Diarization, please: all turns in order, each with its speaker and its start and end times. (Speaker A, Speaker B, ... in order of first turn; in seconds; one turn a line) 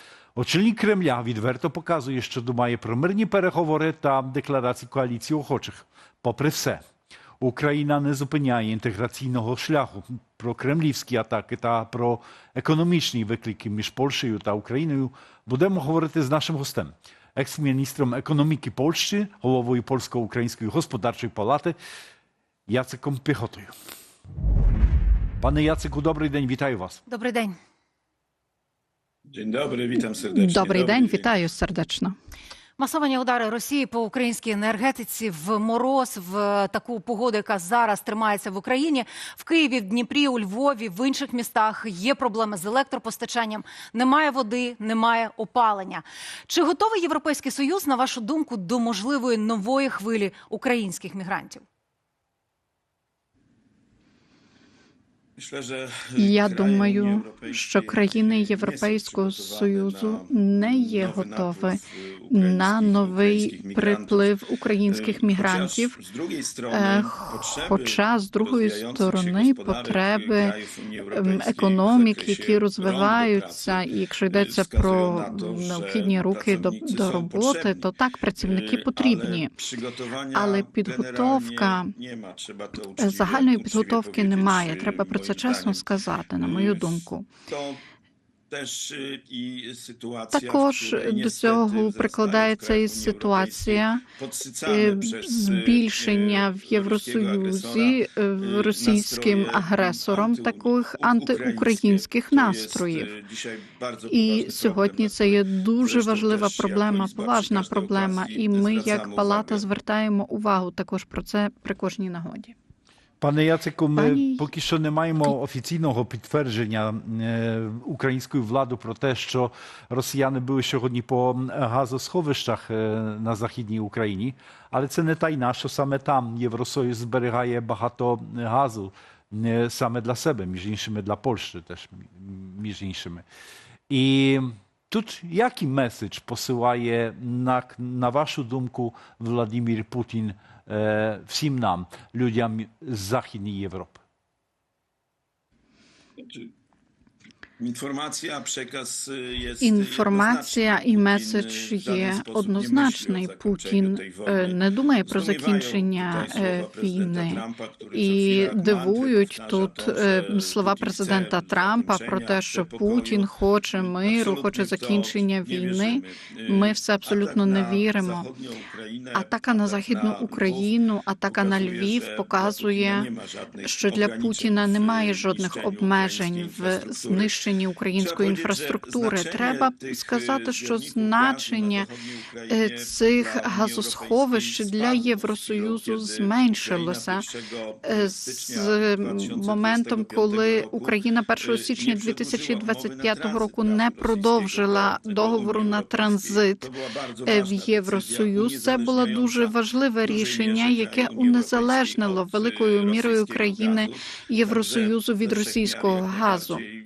Speaker A: 0.3-6.8
Speaker A: 7.4-21.8
Speaker A: 22.7-23.7
Speaker A: 25.4-27.0
Speaker B: 27.1-27.6
Speaker C: 29.6-31.2
Speaker D: 29.9-32.1
Speaker B: 32.8-51.6
Speaker C: 55.7-57.5
Speaker D: 56.2-66.0
Speaker C: 58.4-60.2
Speaker C: 61.1-61.4
Speaker C: 62.3-64.2
Speaker C: 65.0-65.9
Speaker C: 66.7-73.8
Speaker D: 66.7-70.5
Speaker D: 71.1-79.5
Speaker C: 74.4-77.7
Speaker C: 78.5-79.4
Speaker D: 80.3-81.9
Speaker C: 80.9-81.6
Speaker C: 82.7-85.8
Speaker D: 82.9-87.3
Speaker C: 86.5-86.9
Speaker C: 88.8-93.8
Speaker D: 90.3-94.0
Speaker C: 94.4-97.9
Speaker D: 94.7-103.1
Speaker C: 98.5-109.6
Speaker D: 104.1-112.5
Speaker A: 113.2-133.2
Speaker D: 113.9-114.5
Speaker A: 133.9-144.0
Speaker C: 149.0-150.5
Speaker D: 149.6-168.3
Speaker C: 151.2-152.3
Speaker C: 153.6-154.3
Speaker C: 155.1-163.2
Speaker C: 163.8-169.0
Speaker D: 169.1-173.1
Speaker C: 169.6-170.6
Speaker C: 171.3-177.3
Speaker D: 173.6-181.9
Speaker C: 178.0-181.6
Speaker D: 182.5-187.3
Speaker C: 182.5-186.1
Speaker C: 186.7-190.9
Speaker D: 187.8-196.7
Speaker C: 191.8-195.8
Speaker C: 196.6-199.5
Speaker D: 197.2-206.6
Speaker C: 200.1-203.9
Speaker C: 204.5-206.6